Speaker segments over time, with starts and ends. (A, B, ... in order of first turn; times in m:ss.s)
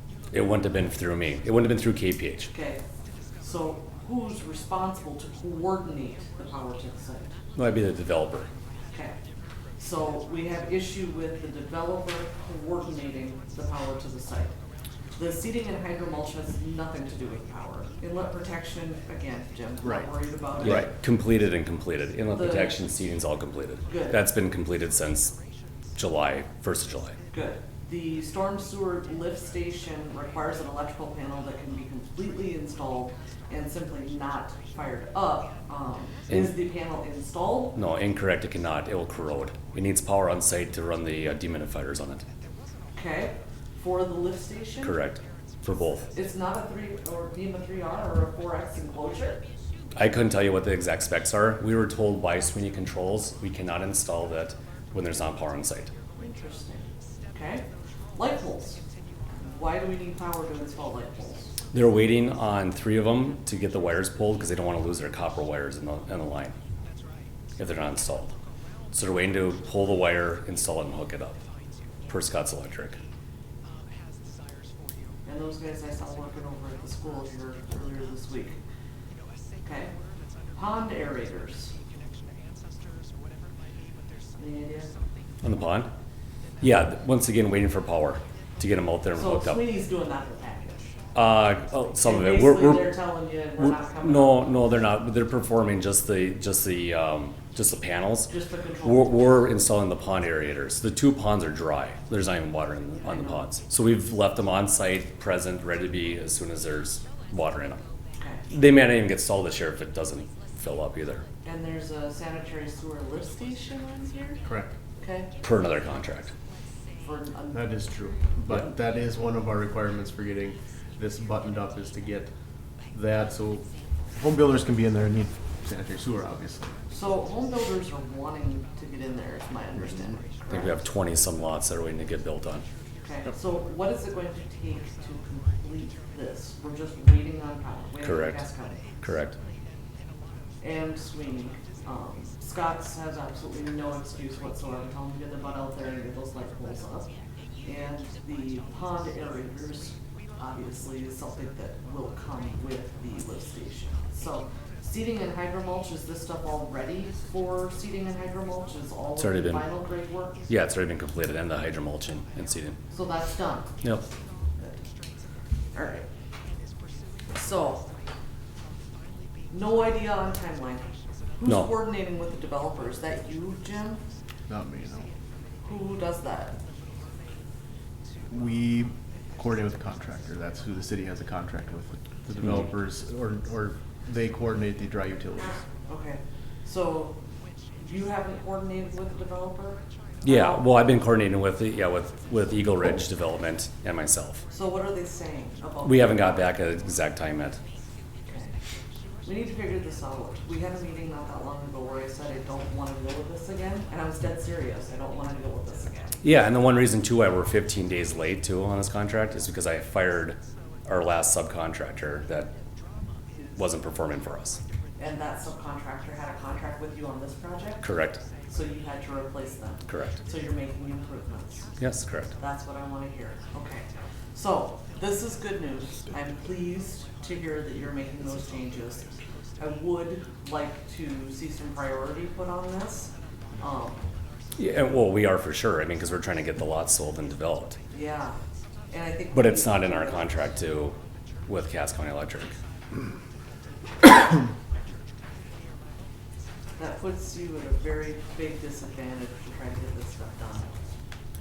0:00.3-0:02.5 A
0:02.5-0:02.8 B
0:03.4-0:07.3 B
0:07.5-0:08.5 A
0:09.8-0:14.5 B
0:15.2-0:20.9 B
0:19.8-0:20.9 C
0:20.6-0:25.3 A
0:22.3-0:22.8 B
0:23.9-0:24.2 B
0:26.0-0:27.2 A
0:27.3-0:37.8 B
0:36.3-0:36.5 A
0:37.7-0:42.2 A
0:42.9-0:45.0 B
0:44.8-0:46.1 A
0:46.1-0:49.4 B
0:50.0-0:55.9 A
0:56.2-0:57.6 B
0:58.2-0:58.8 B
0:59.3-1:01.5 B
1:01.7-1:06.5 A
1:07.6-1:08.3 A
1:08.9-1:11.4 A
1:12.1-1:13.0 A
1:15.2-1:18.6 B
1:19.6-1:19.9 B
1:20.5-1:21.7 B
1:24.4-1:24.9 B
1:25.4-1:25.9 A
1:26.6-1:29.6 A
1:29.1-1:30.9 B
1:31.1-1:33.0 A
1:32.0-1:34.7 B
1:33.6-1:38.3 A
1:38.3-1:39.2 B
1:38.8-1:47.8 A
1:43.0-1:43.4 B
1:48.5-1:51.2 A
1:51.4-1:54.4 B
1:54.4-1:54.7 C
1:55.0-1:55.3 B
1:55.4-1:56.3 A
1:57.0-1:57.7 B
1:57.5-2:02.3 C
2:02.9-2:06.7 C
2:06.9-2:10.8 B
2:10.5-2:12.6 A
2:13.0-2:18.8 B
2:18.0-2:18.4 A
2:19.0-2:19.3 A
2:20.6-2:27.1 B
2:27.6-2:40.4 B
2:39.2-2:39.7 A
2:40.5-2:42.8 A
2:42.9-2:43.7 B
2:45.7-2:46.1 B
2:47.3-2:47.9 B
2:49.5-2:50.9 B
2:51.4-2:54.0 B
2:51.4-2:51.7 A
2:54.5-2:55.1 C
2:55.6-2:56.6 B
2:58.3-3:05.6 C
3:05.8-3:07.1 B
3:07.8-3:10.6 B
3:10.2-3:14.4 A
3:14.5-3:16.4 B
3:15.8-3:17.6 A
3:18.3-3:18.5 B
3:19.2-3:26.2 B
3:26.2-3:32.5 A
3:33.5-3:34.6 A
3:35.0-3:37.8 B
3:37.8-3:38.2 A
3:38.5-3:41.6 B
3:39.9-3:40.2 A
3:41.8-3:42.3 A
3:42.4-3:49.1 B
3:49.6-3:54.0 B
3:54.6-3:57.8 A
3:57.9-3:58.4 B
3:58.9-4:00.5 B
3:59.3-4:00.9 A
4:01.5-4:02.5 A
4:06.8-4:10.7 B